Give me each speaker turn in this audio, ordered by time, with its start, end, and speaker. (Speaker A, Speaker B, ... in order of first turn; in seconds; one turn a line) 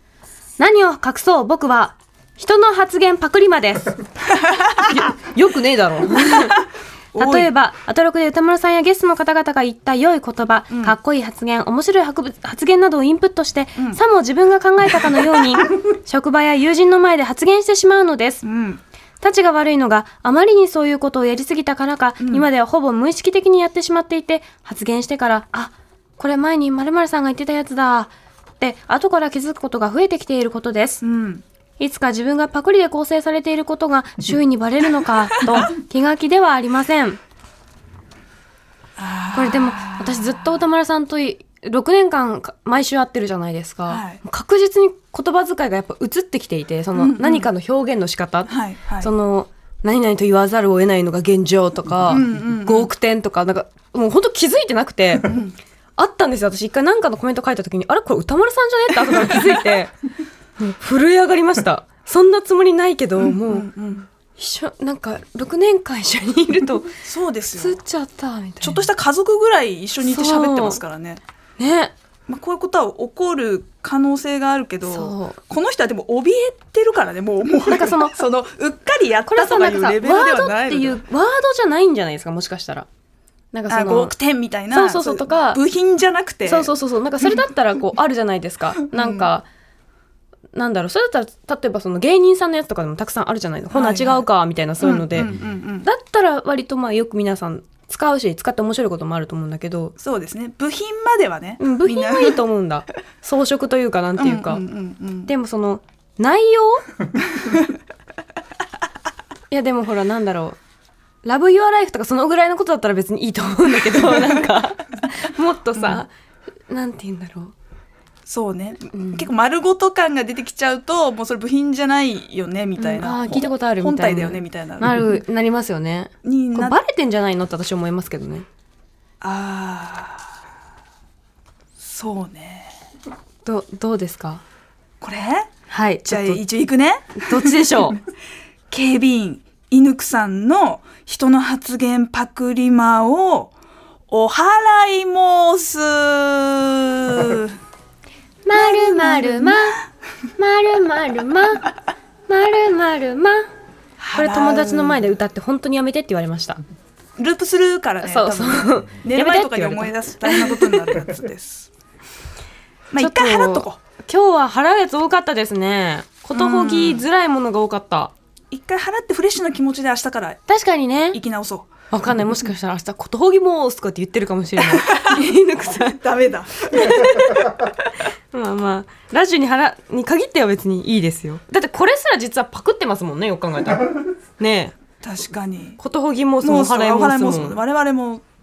Speaker A: 0.6-4.0
Speaker B: 4.3-4.7
Speaker A: 4.8-6.6
Speaker B: 6.2-6.5
Speaker B: 7.1-7.5
Speaker A: 7.2-18.4
Speaker B: 10.7-11.0
Speaker B: 13.8-14.0
Speaker B: 18.4-18.8
Speaker A: 19.2-31.0
Speaker B: 22.2-22.5
Speaker B: 31.0-31.4
Speaker A: 31.8-37.2
Speaker B: 35.3-35.7
Speaker B: 39.0-40.6
Speaker A: 39.3-55.3
Speaker B: 43.9-44.2
Speaker B: 46.9-47.5
Speaker B: 48.5-49.1
Speaker B: 52.1-52.9
Speaker B: 55.2-55.5
Speaker A: 56.0-60.0
Speaker A: 60.6-63.7
Speaker B: 63.2-64.1
Speaker A: 64.4-67.0
Speaker B: 67.0-67.8
Speaker A: 67.6-68.8
Speaker B: 68.6-71.2
Speaker A: 70.0-70.8
Speaker A: 71.6-71.9
Speaker B: 72.3-81.0
Speaker A: 74.8-75.4
Speaker A: 77.7-78.2
Speaker A: 79.3-82.9
Speaker A: 83.5-84.1
Speaker B: 83.7-87.5
Speaker A: 84.7-85.6
Speaker A: 86.5-89.5
Speaker B: 88.8-89.3
Speaker A: 90.5-100.0
Speaker B: 93.7-94.3
Speaker B: 94.8-95.9
Speaker B: 100.0-102.5
Speaker A: 101.6-104.6
Speaker B: 104.2-105.3
Speaker A: 105.3-106.9
Speaker A: 109.5-110.6
Speaker A: 111.2-116.1
Speaker B: 115.8-116.0
Speaker A: 116.7-117.5
Speaker B: 118.3-125.1
Speaker A: 118.9-119.3
Speaker A: 122.8-128.5
Speaker B: 126.2-126.8
Speaker B: 129.2-130.3
Speaker B: 131.8-132.7
Speaker A: 133.4-134.4
Speaker B: 135.0-135.5
Speaker A: 135.7-136.4
Speaker B: 136.1-137.9
Speaker A: 137.2-138.0
Speaker B: 138.7-143.5
Speaker B: 144.1-147.6
Speaker A: 148.4-149.8
Speaker B: 148.5-149.8
Speaker A: 150.4-151.7
Speaker A: 152.3-153.5
Speaker B: 154.0-155.1
Speaker A: 154.2-156.6
Speaker B: 157.2-161.7
Speaker A: 158.0-161.0
Speaker B: 162.9-163.8
Speaker A: 163.0-168.1
Speaker B: 166.3-167.1
Speaker B: 168.5-170.4
Speaker A: 170.5-171.2
Speaker B: 171.1-171.7
Speaker A: 171.9-176.0
Speaker B: 174.6-177.1
Speaker A: 176.7-184.8
Speaker B: 185.0-185.8
Speaker A: 185.8-187.6
Speaker B: 186.4-188.2